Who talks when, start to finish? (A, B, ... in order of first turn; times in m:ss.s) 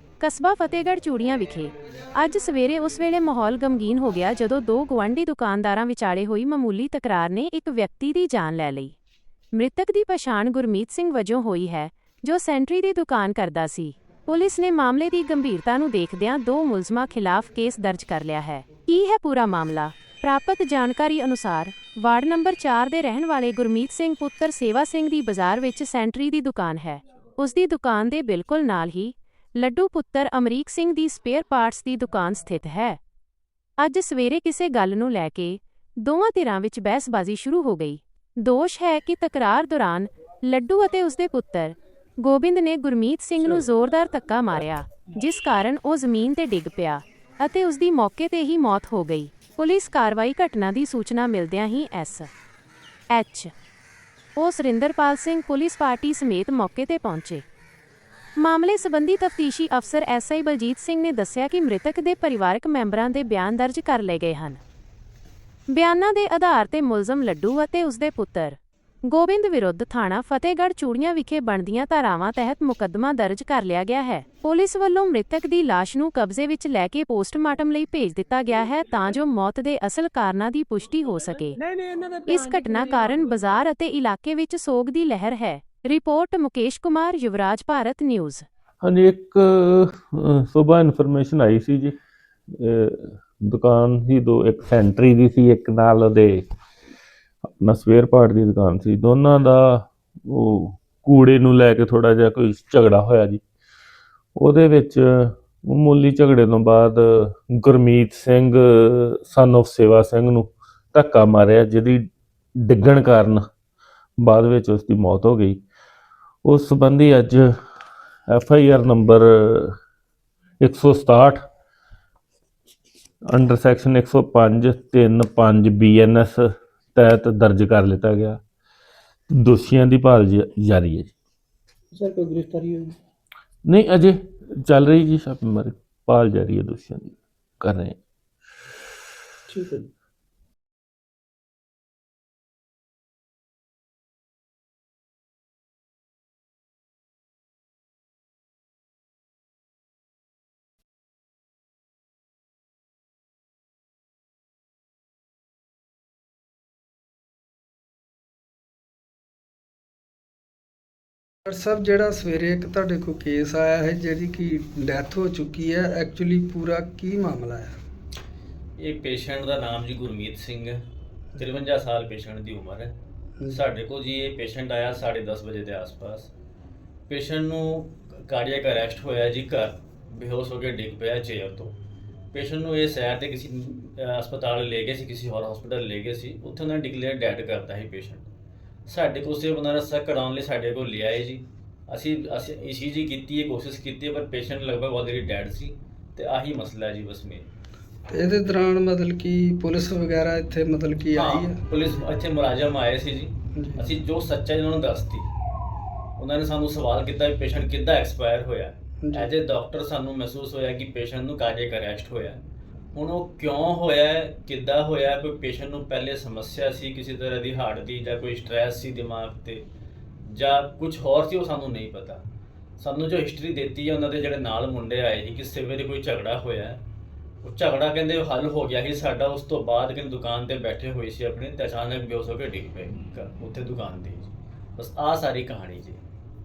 0:00.2-0:09.0 A
0:09.5-0:33.0 A
0:33.8-0:52.3 A
0:53.1-0:53.5 A
0:54.4-0:57.4 A
0:58.4-1:04.6 A
1:05.7-1:21.6 A
1:21.5-1:23.4 B
1:22.3-1:28.5 A
1:28.8-1:32.0 C
1:32.5-1:36.5 C
1:37.4-1:43.4 C
1:44.4-1:53.5 C
1:54.2-1:55.6 C
1:56.4-1:57.6 C
1:58.3-1:59.8 C
2:00.6-2:01.4 C
2:03.3-2:08.4 C
2:09.3-2:11.1 C
2:11.9-2:13.0 B
2:13.6-2:18.0 C
2:19.5-2:19.9 B
2:41.5-2:47.8 D
2:48.8-2:50.8 E
2:51.4-2:53.0 E
2:53.5-2:56.3 E
2:57.1-3:01.8 E
3:02.3-3:08.2 E
3:08.9-3:17.4 E
3:18.1-3:21.6 D
3:21.1-3:25.3 E
3:23.5-3:24.0 D
3:26.2-3:32.4 E
3:29.0-3:29.3 D
3:32.9-3:39.6 E
3:40.2-3:42.2 E
3:42.8-3:46.8 E
3:47.4-3:56.0 E